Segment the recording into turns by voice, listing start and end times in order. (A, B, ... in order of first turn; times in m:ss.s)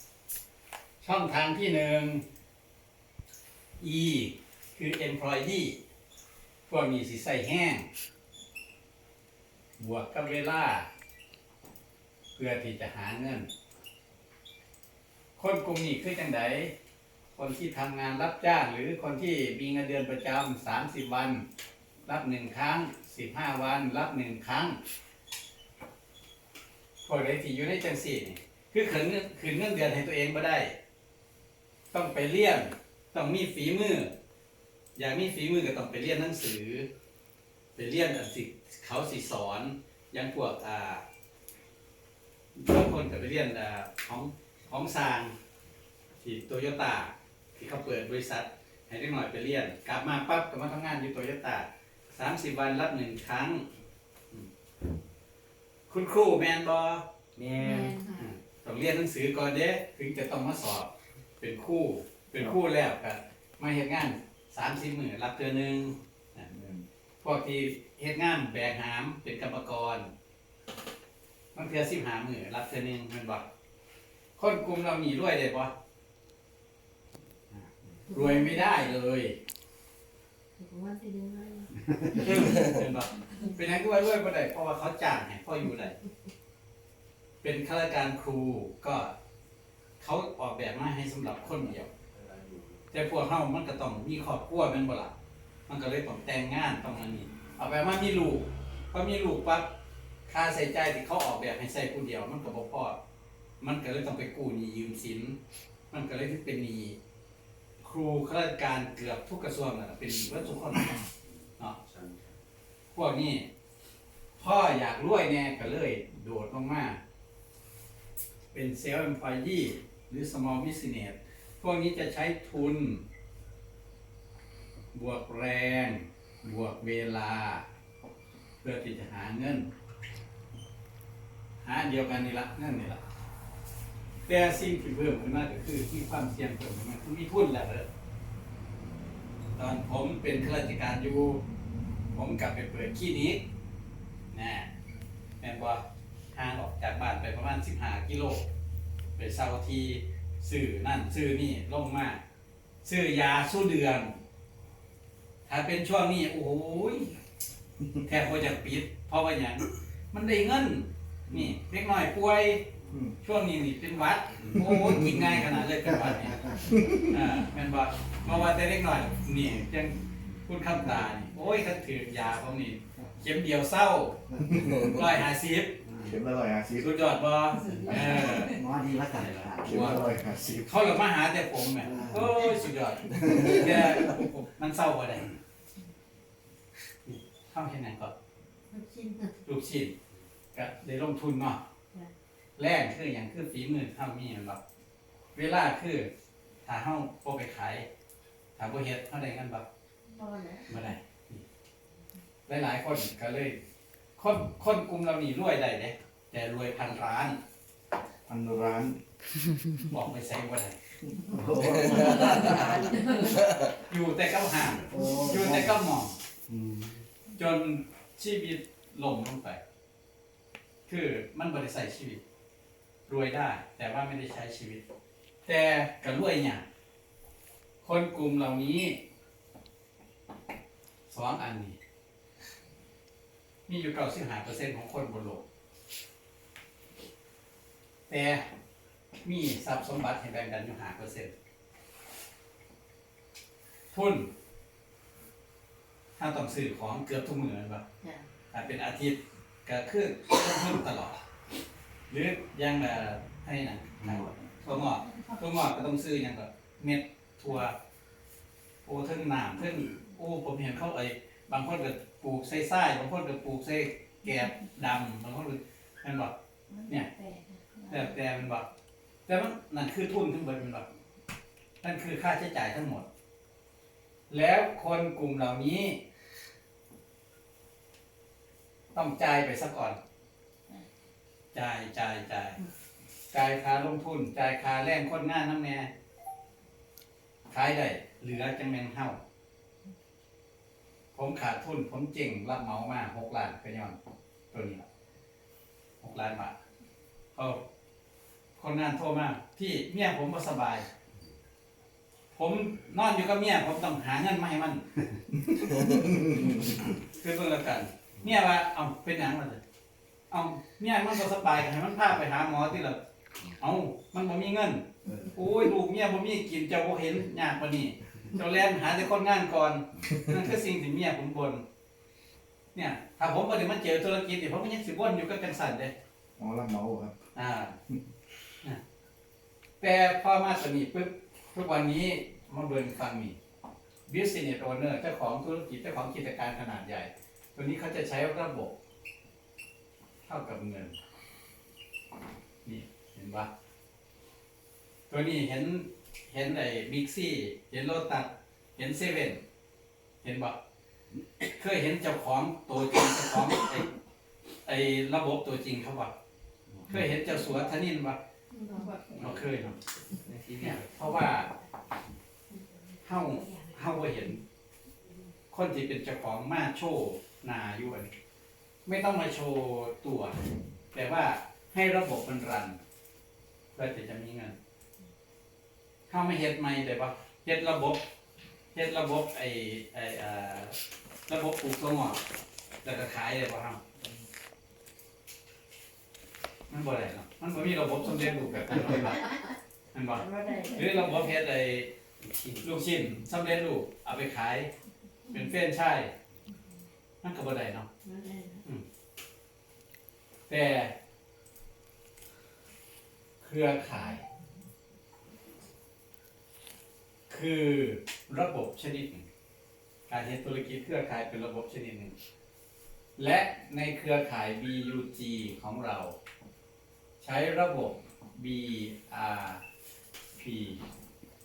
0:01.0-0:02.2 A
0:03.8-0:05.8 A
0:06.7-0:07.9 A
0:09.8-0:10.9 A
0:12.4-0:13.5 A
0:15.4-0:16.7 A
0:17.3-0:21.4 A
0:22.0-0:24.8 A
0:27.0-0:30.7 A
0:31.9-0:34.1 A
0:35.0-0:36.9 A
0:37.7-0:41.0 A
0:42.6-0:45.3 A
0:46.2-0:53.6 A
0:55.9-0:57.1 A
0:57.4-0:57.9 B
0:57.6-0:58.2 C
0:58.1-1:06.5 A
1:06.5-1:06.8 D
1:07.2-1:10.1 A
1:11.6-1:13.4 A
1:14.4-1:15.7 A
1:17.5-1:19.4 A
1:20.6-1:22.6 C
1:21.9-1:26.0 A
1:27.4-1:29.1 A
1:30.0-1:31.9 A
1:32.9-1:35.1 A
1:35.7-1:39.7 A
1:40.3-1:43.0 A
1:43.6-1:45.4 A
1:45.9-1:47.0 A
1:47.8-1:50.9 A
1:51.9-1:52.2 B
1:52.9-1:53.5 A
1:54.4-1:57.0 A
1:58.5-2:03.0 A
2:04.9-2:07.6 A
2:08.6-2:09.7 A
2:11.6-2:13.0 A
2:14.2-2:17.9 A
2:19.6-2:21.4 A
2:22.1-2:23.4 A
2:24.3-2:24.7 A
2:25.4-2:25.8 A
2:26.3-2:28.5 A
2:29.2-2:32.2 A
2:32.8-2:34.2 A
2:35.5-2:37.2 A
2:38.0-2:54.2 A
2:44.5-2:45.2 D
2:46.6-2:47.0 D
2:54.5-2:55.0 D
2:54.8-2:56.0 A
2:55.9-2:56.9 D
2:56.8-3:05.4 A
2:57.8-3:00.3 B
2:59.6-3:00.7 D
3:01.8-3:02.3 B
3:03.2-3:03.6 D
3:07.0-3:08.1 A
3:08.7-3:09.3 C
3:09.4-3:09.9 A
3:10.5-3:11.6 A
3:12.6-3:14.6 A
3:15.3-3:16.1 A
3:16.6-3:17.8 A
3:18.6-3:19.6 A
3:20.1-3:20.7 C
3:20.7-3:21.4 A
3:22.5-3:23.6 A
3:24.2-3:27.4 A
3:28.3-3:29.0 D
3:29.7-3:30.8 A
3:31.2-3:32.8 D
3:31.4-3:32.3 B
3:31.8-3:36.2 A
3:34.9-3:35.7 D
3:37.4-3:39.6 A
3:40.9-3:42.2 A
3:43.1-3:44.8 A
3:45.4-3:46.6 A
3:47.8-3:49.0 A
3:51.1-3:51.8 A
3:53.7-3:55.4 A
3:58.1-3:58.4 A
3:59.2-4:01.3 A
4:03.9-4:04.3 A
4:06.2-4:07.8 A
4:08.5-4:11.2 A
4:12.1-4:17.8 A
4:14.0-4:14.3 B
4:18.8-4:26.3 A
4:26.7-4:28.1 C
4:27.9-4:28.7 A
4:29.3-4:30.9 A
4:31.8-4:33.1 A
4:34.3-4:36.0 A
4:38.9-4:40.0 A
4:41.5-4:42.6 A
4:43.3-4:45.9 A
4:47.5-4:49.2 A
4:51.1-4:54.0 A
4:54.5-4:54.8 A
4:56.0-4:56.6 A
4:57.4-4:57.6 A
4:58.6-5:00.9 A
5:02.3-5:05.2 A
5:05.7-5:06.8 D
5:06.9-5:09.6 A
5:10.3-5:21.6 A
5:22.8-5:25.9 A
5:26.4-5:27.2 D
5:27.4-5:27.8 A
5:29.8-5:33.4 A
5:34.1-5:38.8 A
5:40.2-5:41.0 A
5:42.6-5:43.5 A
5:45.1-5:49.4 A
5:50.2-5:50.6 A
5:51.4-5:53.9 A
5:54.6-5:56.1 A
5:56.9-5:58.2 A
5:58.5-5:59.2 C
5:59.1-5:59.8 A
6:00.2-6:00.8 B
6:00.6-6:01.5 A
6:03.0-6:04.4 A
6:05.5-6:08.2 A
6:08.9-6:10.4 A
6:10.9-6:12.8 A
6:13.8-6:14.6 A
6:16.1-6:18.1 A
6:18.7-6:20.8 A
6:21.3-6:22.2 A
6:22.8-6:23.8 A
6:26.7-6:29.4 A
6:29.9-6:34.7 A
6:30.2-6:31.0 C
6:35.3-6:36.1 A
6:37.2-6:37.9 A
6:38.0-6:38.6 C
6:40.5-6:40.9 A
6:43.4-6:44.2 A
6:47.3-6:49.3 A
6:50.1-6:52.1 A
6:53.2-6:56.2 A
6:57.2-6:59.6 A
7:00.4-7:00.8 A